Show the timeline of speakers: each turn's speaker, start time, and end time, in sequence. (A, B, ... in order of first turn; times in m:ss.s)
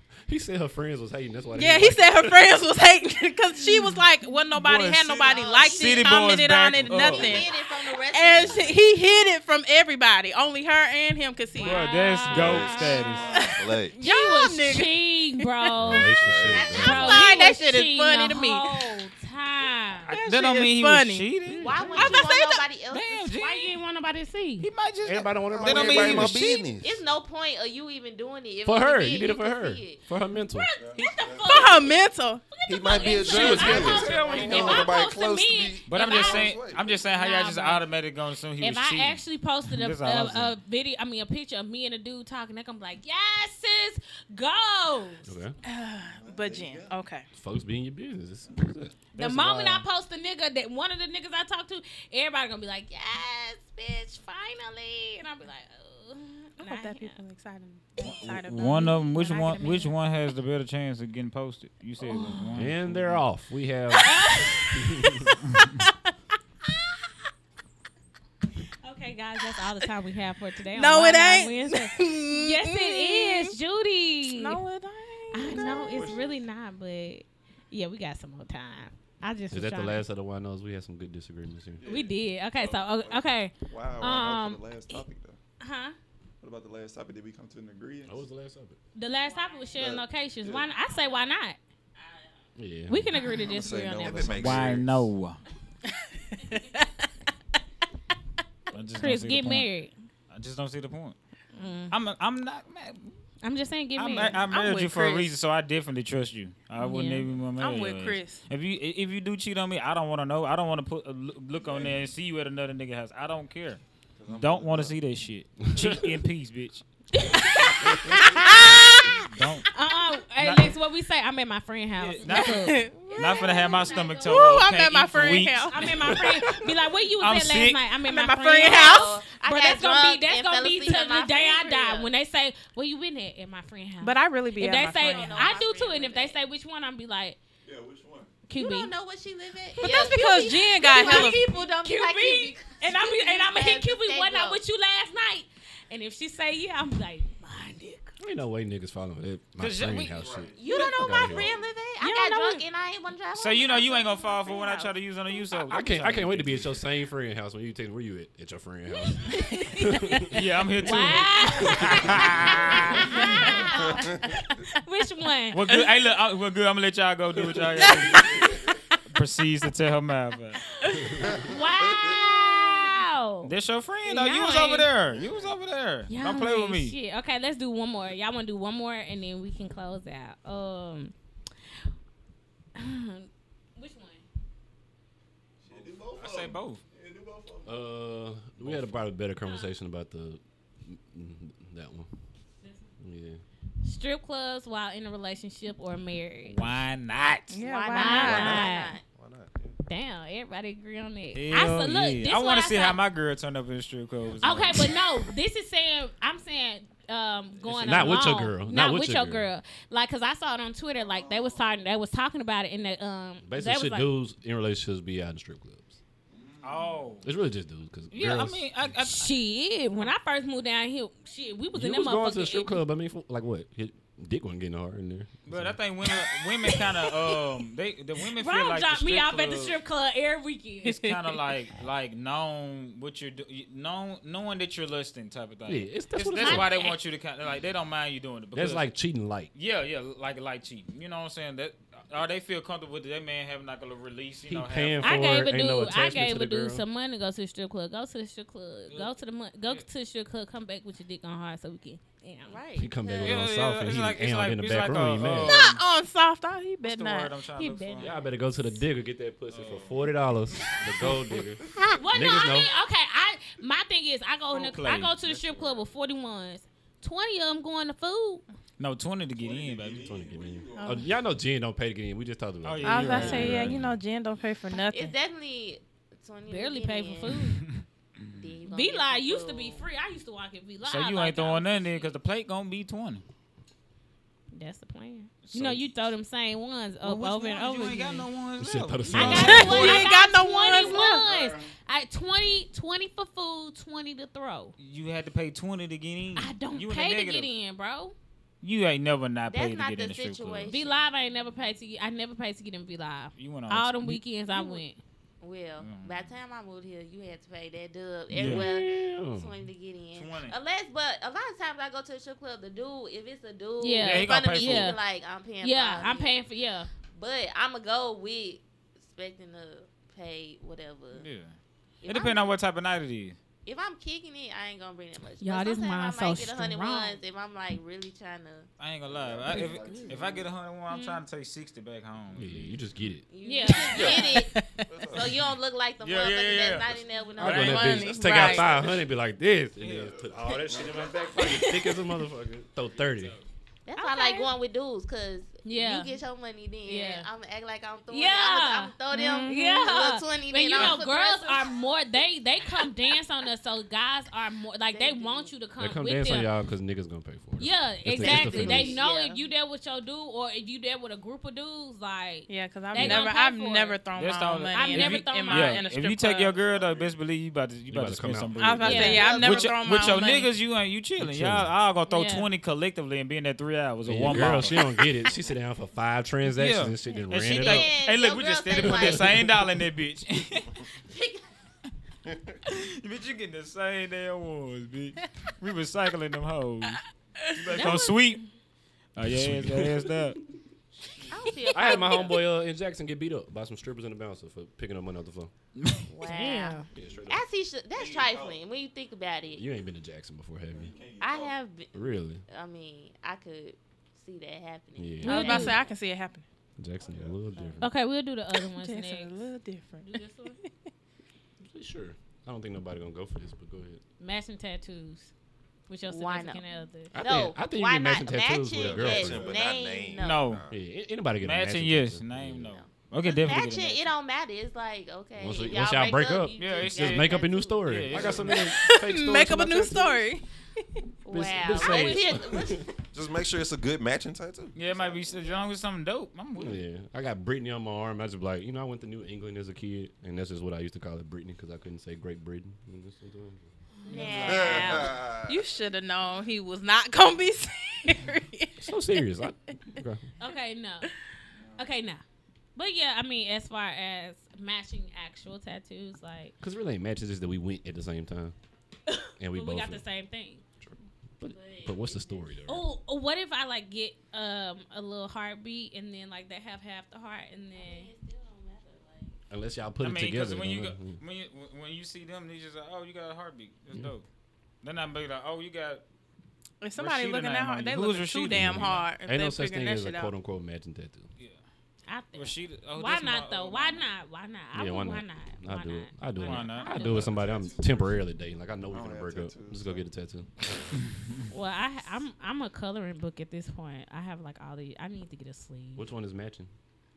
0:00.3-0:02.4 A
0:01.5-0:11.9 B
0:04.5-0:07.5 C
0:05.2-0:06.2 D
0:06.9-0:08.8 D
0:11.6-0:13.1 E
0:11.6-0:13.5 C
0:12.3-0:14.0 F
0:12.9-0:15.8 B
0:14.0-0:16.1 E
0:15.8-0:17.2 A
0:15.9-0:16.8 F
0:16.5-0:17.5 D
0:16.7-0:20.1 E
0:16.8-0:18.9 B
0:20.1-0:22.3 C
0:20.1-0:21.3 B
0:21.4-0:22.2 E
0:21.6-0:23.3 D
0:21.9-0:22.6 B
0:22.9-0:23.8 C
0:23.3-0:24.7 E
0:24.6-0:26.6 C
0:25.0-0:26.4 A
0:25.6-0:27.0 F
0:26.8-0:30.0 D
0:28.6-0:30.7 A
0:30.3-0:37.8 E
0:30.7-0:31.7 G
0:31.4-0:32.5 B
0:32.6-0:37.0 F
0:33.3-0:34.8 A
0:33.3-0:34.8 C
0:33.7-0:34.6 G
0:35.9-0:40.6 C
0:38.6-0:45.3 E
0:45.2-0:45.5 A
0:45.6-0:47.3 B
0:46.2-0:46.9 G
0:47.3-0:48.9 A
0:49.1-0:49.8 C
0:49.2-0:57.2 E
0:56.6-0:59.6 B
0:58.0-1:03.2 C
0:58.0-0:59.9 E
1:02.0-1:02.5 E
1:02.5-1:05.3 A
1:03.9-1:04.7 E
1:08.8-1:14.6 E
1:10.7-1:13.5 B
1:14.3-1:16.1 B
1:15.3-1:20.0 E
1:15.5-1:16.4 G
1:19.5-1:21.8 A
1:21.8-1:25.4 G
1:21.8-1:25.0 E
1:25.6-1:25.9 E
1:26.4-1:28.2 G
1:28.0-1:28.8 A
1:28.9-1:31.6 E
1:29.1-1:30.0 D
1:29.8-1:30.6 G
1:30.7-1:31.3 D
1:32.0-1:32.4 D
1:32.6-1:33.2 A
1:32.9-1:34.4 E
1:33.3-1:34.9 G
1:34.0-1:35.0 F
1:34.3-1:35.4 C
1:36.2-1:37.1 B
1:38.7-1:39.7 C
1:39.0-1:39.9 E
1:40.3-1:41.2 C
1:41.5-1:41.9 E
1:41.9-1:43.2 C
1:43.4-1:44.4 E
1:44.0-1:53.8 C
1:44.5-1:45.3 B
1:46.8-1:47.3 E
1:47.6-1:48.4 B
1:51.6-1:52.0 G
1:54.2-1:54.9 G
1:54.3-1:56.8 C
1:55.6-1:56.2 A
1:57.1-1:58.9 E
1:58.1-1:59.2 B
1:58.4-1:59.7 C
1:59.7-2:04.4 E
2:00.4-2:00.7 C
2:02.0-2:06.1 C
2:02.3-2:05.8 B
2:03.0-2:04.5 D
2:05.7-2:17.4 E
2:07.2-2:07.8 C
2:08.0-2:09.2 B
2:08.6-2:12.1 D
2:14.0-2:15.5 B
2:14.8-2:16.4 D
2:17.6-2:18.3 G
2:18.5-2:18.9 E
2:18.5-2:24.6 D
2:19.8-2:21.5 B
2:20.8-2:28.2 E
2:28.2-2:31.5 A
2:29.6-2:30.4 C
2:30.2-2:31.5 G
2:30.5-2:34.9 D
2:32.0-2:32.6 E
2:33.3-2:36.8 C
2:35.7-2:40.3 A
2:39.2-2:40.2 E
2:40.3-2:43.4 C
2:40.8-2:44.0 E
2:40.8-2:42.2 A
2:43.2-2:43.7 B
2:44.8-2:45.7 E
2:45.5-2:50.6 C
2:47.8-2:48.2 B
2:50.8-2:53.5 E
2:53.4-2:57.0 C
2:54.0-2:54.9 E
2:56.1-3:01.1 E
3:02.8-3:04.2 E
3:05.6-3:07.7 G
3:06.2-3:06.8 C
3:07.6-3:12.1 A
3:08.6-3:09.0 C
3:09.4-3:09.7 E
3:13.0-3:13.4 A
3:13.8-3:16.6 E
3:16.4-3:17.6 C
3:17.5-3:18.6 B
3:17.6-3:19.0 D
3:17.9-3:18.9 E
3:18.2-3:19.8 F
3:19.8-3:23.0 E
3:21.3-3:24.9 C
3:24.4-3:34.1 E
3:27.6-3:29.5 A
3:31.0-3:31.6 G
3:33.4-3:36.0 A
3:36.3-3:36.7 G
3:36.6-3:37.3 C
3:37.2-3:38.9 A
3:38.1-3:39.3 C
3:39.0-3:42.8 E
3:41.7-3:45.8 A
3:45.5-3:49.8 C
3:46.6-3:47.4 E
3:48.3-3:51.2 E
3:50.8-3:58.9 C
3:55.6-3:56.7 A
3:56.3-3:57.0 E
3:58.5-3:59.5 A
3:59.5-4:05.3 C
4:04.5-4:06.8 A
4:05.0-4:12.6 E
4:08.9-4:09.1 C
4:12.4-4:13.5 D
4:12.8-4:15.5 A
4:13.2-4:15.8 C
4:15.4-4:17.3 B
4:16.8-4:18.2 C
4:17.6-4:18.7 E
4:18.0-4:22.7 A
4:19.5-4:19.9 C
4:21.8-4:28.4 E
4:24.5-4:25.8 C
4:28.8-4:30.2 C
4:29.4-4:31.2 G
4:29.9-4:34.0 A
4:30.7-4:31.0 B
4:32.6-4:33.8 C
4:32.8-4:35.2 B
4:34.8-4:37.4 D
4:36.5-4:37.6 E
4:38.4-4:39.8 D
4:38.7-4:42.2 E
4:40.8-4:43.2 C
4:44.5-4:48.3 E
4:45.4-4:46.2 C
4:47.0-4:50.0 C
4:48.6-4:50.0 A
4:49.1-4:54.7 E
4:49.2-4:51.2 B
4:50.7-4:51.7 G
4:54.8-4:57.5 C
4:56.4-4:58.1 E
4:58.6-5:00.7 C
4:59.4-5:01.0 D
5:00.7-5:05.0 E
5:03.4-5:04.2 C
5:04.5-5:04.8 D
5:05.4-5:16.3 D
5:05.8-5:06.3 C
5:08.3-5:08.7 C
5:08.3-5:09.6 A
5:10.1-5:10.6 C
5:13.8-5:15.0 E
5:14.0-5:15.0 C
5:15.6-5:16.9 E
5:17.1-5:21.2 D
5:21.1-5:23.4 C
5:22.0-5:22.5 D
5:23.6-5:28.7 D
5:25.4-5:27.2 E
5:28.8-5:32.7 C
5:29.1-5:30.5 G
5:29.5-5:30.0 E
5:30.9-5:31.2 E
5:32.3-5:33.2 A
5:33.3-5:34.5 D
5:33.4-5:34.4 E
5:33.9-5:34.3 F
5:34.1-5:34.8 B
5:34.9-5:35.5 F
5:35.1-5:38.4 D
5:36.0-5:37.9 C
5:37.4-5:43.4 A
5:37.6-5:38.8 B
5:39.8-5:40.2 C
5:40.6-5:41.0 G
5:41.3-5:42.0 E
5:43.0-5:43.4 C
5:43.8-5:51.8 D
5:43.9-5:44.5 E
5:45.6-5:46.2 E
5:46.8-5:47.3 E
5:48.1-5:56.5 E
5:54.9-5:55.5 D
5:55.8-5:59.0 A
5:57.6-6:04.0 E
5:58.1-5:59.4 D
6:02.5-6:06.6 B
6:03.0-6:03.2 A
6:04.1-6:15.0 C
6:04.7-6:05.8 E
6:06.6-6:07.1 G
6:07.9-6:09.0 A
6:08.6-6:10.5 B
6:08.8-6:09.4 E
6:08.9-6:10.1 D
6:11.2-6:11.7 A
6:12.1-6:12.4 E
6:14.0-6:17.9 A
6:16.5-6:20.8 C
6:17.4-6:19.4 D
6:18.7-6:19.4 A
6:20.9-6:21.5 D
6:22.6-6:27.0 C
6:27.4-6:27.8 B
6:27.5-6:28.4 C
6:27.7-6:28.2 E
6:29.1-6:30.4 C
6:29.2-6:30.4 A
6:31.1-6:31.3 C
6:31.3-6:32.4 D
6:31.7-6:35.5 A
6:35.8-6:36.0 C
6:36.1-6:39.7 D
6:36.2-6:36.8 E
6:36.9-6:37.4 A
6:37.9-6:38.6 G
6:39.5-6:40.9 A
6:40.7-6:41.6 G
6:41.2-6:42.0 D
6:41.9-6:42.4 A
6:42.5-6:45.9 D
6:45.0-6:45.5 A
6:45.2-6:46.4 B
6:45.2-6:45.8 E
6:46.8-6:47.9 A
6:47.0-6:47.8 G
6:47.8-6:49.5 E
6:48.5-6:50.7 B
6:50.0-6:50.6 E
6:51.7-6:54.0 A
6:54.2-6:55.3 E
6:55.9-6:57.1 E
6:56.1-6:56.6 D
6:57.1-6:59.5 A
6:57.1-7:00.6 D
6:58.7-7:00.8 F
6:59.2-6:59.6 G
7:00.2-7:00.6 C
7:00.7-7:02.8 A
7:01.4-7:04.1 C
7:02.6-7:08.5 D
7:05.3-7:10.2 A
7:06.6-7:08.6 C
7:08.5-7:10.4 B
7:11.2-7:12.8 D
7:11.3-7:12.9 A
7:13.1-7:15.6 F
7:14.7-7:16.8 C
7:16.6-7:24.8 A
7:24.0-7:24.9 E
7:24.0-7:25.2 D
7:24.2-7:29.3 B
7:24.4-7:25.6 F
7:28.8-7:30.3 A
7:30.4-7:31.1 E
7:31.6-7:31.8 G
7:31.8-7:32.2 E
7:32.7-7:36.5 E
7:36.6-7:38.5 A
7:39.1-7:40.6 E
7:39.4-7:40.0 A
7:40.8-7:42.9 A
7:41.4-7:42.6 D
7:42.7-7:48.1 E
7:47.7-7:49.4 D
7:49.5-7:51.2 A
7:50.0-7:54.2 C
7:54.8-7:56.0 C
7:56.8-8:00.3 B
7:56.9-7:59.1 C
7:58.5-8:01.3 A
8:02.0-8:07.3 E
8:02.3-8:04.0 C
8:04.7-8:10.9 A
8:06.4-8:07.3 C
8:07.1-8:08.2 G
8:08.9-8:10.1 G
8:11.5-8:16.1 E
8:15.9-8:16.7 A